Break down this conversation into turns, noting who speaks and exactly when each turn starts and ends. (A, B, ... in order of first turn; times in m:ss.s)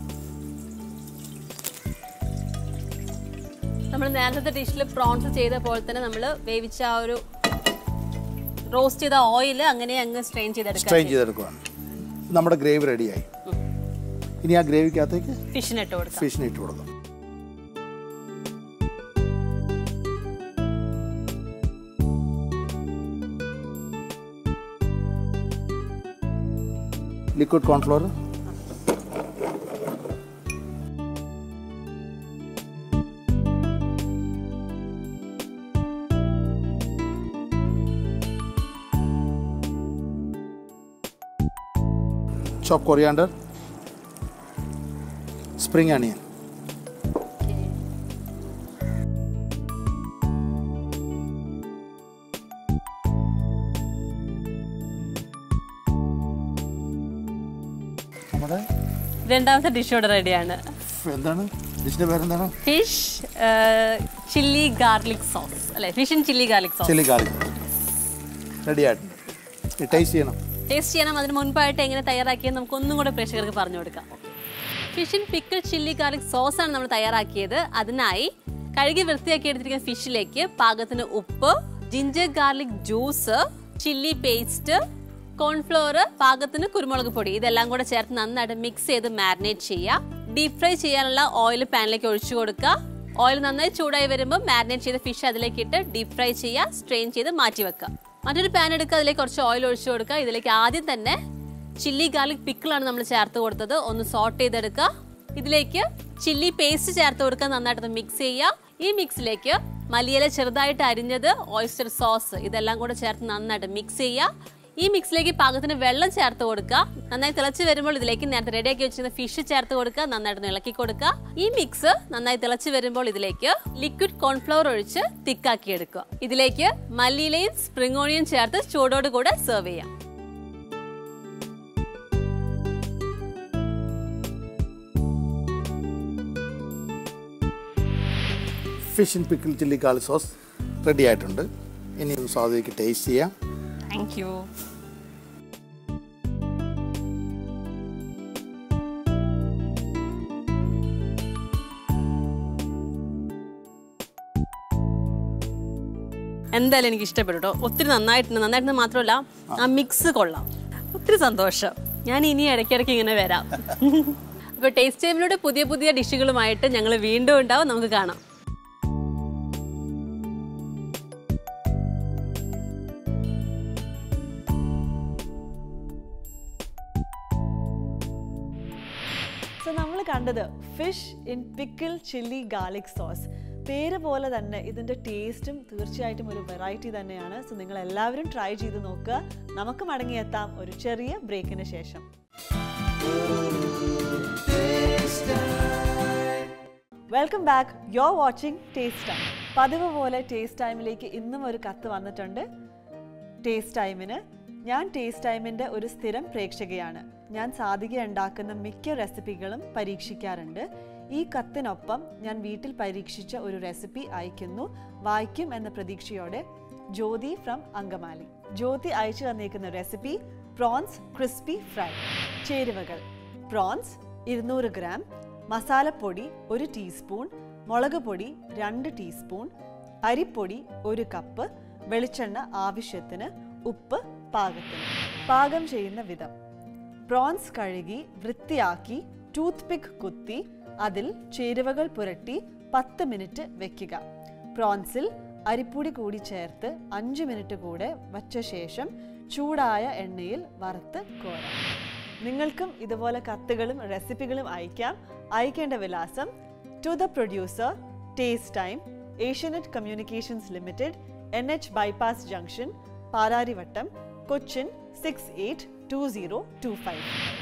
0:03.9-0:07.2 A
0:08.7-0:11.2 A
0:10.8-0:11.6 B
0:12.3-0:13.3 B
0:14.4-0:15.4 B
0:15.5-0:16.3 A
0:16.1-0:16.9 B
0:27.3-0:28.1 B
0:42.6-0:43.3 B
0:45.6-0:46.2 B
0:47.4-0:47.7 A
0:58.3-0:58.6 B
0:59.2-1:00.6 A
1:00.9-1:02.6 B
1:02.6-1:07.0 A
1:06.8-1:07.5 B
1:08.6-1:09.2 B
1:09.8-1:10.4 B
1:10.7-1:14.3 A
1:14.9-1:24.8 A
1:25.4-1:41.2 A
1:41.8-1:54.3 A
1:54.8-2:09.9 A
2:18.9-2:23.3 B
2:23.9-2:24.5 A
2:36.5-2:48.2 A
2:59.6-3:12.0 C
3:17.1-3:22.4 C
3:23.4-3:49.5 C
3:50.0-3:56.3 C
3:57.1-4:04.0 C
4:04.5-4:11.6 C
4:12.2-4:16.3 C
4:16.8-4:27.2 C